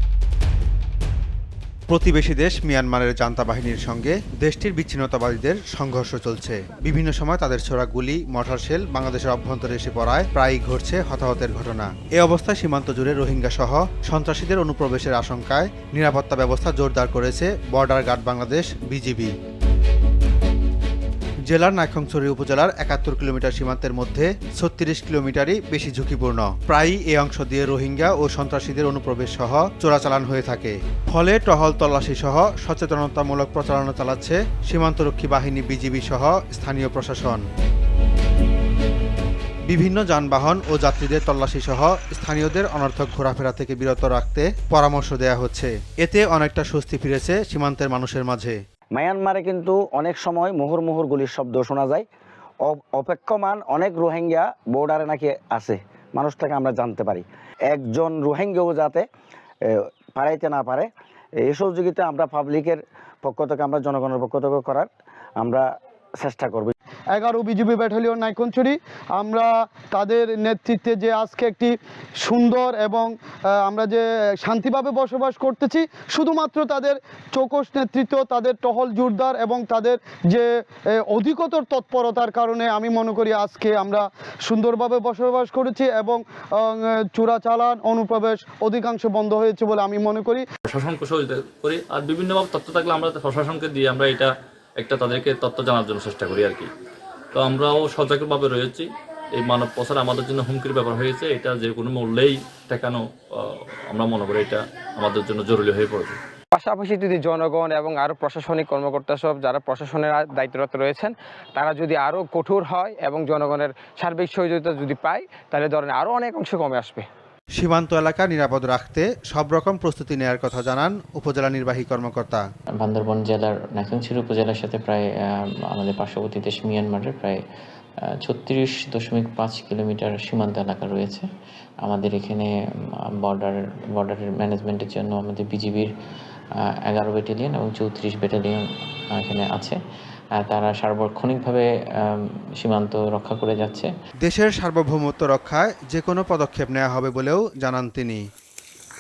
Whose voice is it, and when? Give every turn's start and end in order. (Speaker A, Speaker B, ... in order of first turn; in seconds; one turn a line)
Speaker A: 1.9-19.3
Speaker A: 21.5-37.4
Speaker A: 39.7-48.5
Speaker B: 48.9-52.1
Speaker B: 52.6-59.1
Speaker B: 59.7-60.9
Speaker B: 61.4-64.9
Speaker B: 65.4-66.7
Speaker C: 67.1-90.5
Speaker D: 90.7-96.7
Speaker D: 97.3-106.2
Speaker E: 106.5-117.1
Speaker A: 117.6-122.4
Speaker F: 122.8-127.4
Speaker F: 128.1-131.3
Speaker F: 131.8-135.9
Speaker F: 136.6-139.8
Speaker F: 140.3-143.9
Speaker A: 144.2-148.2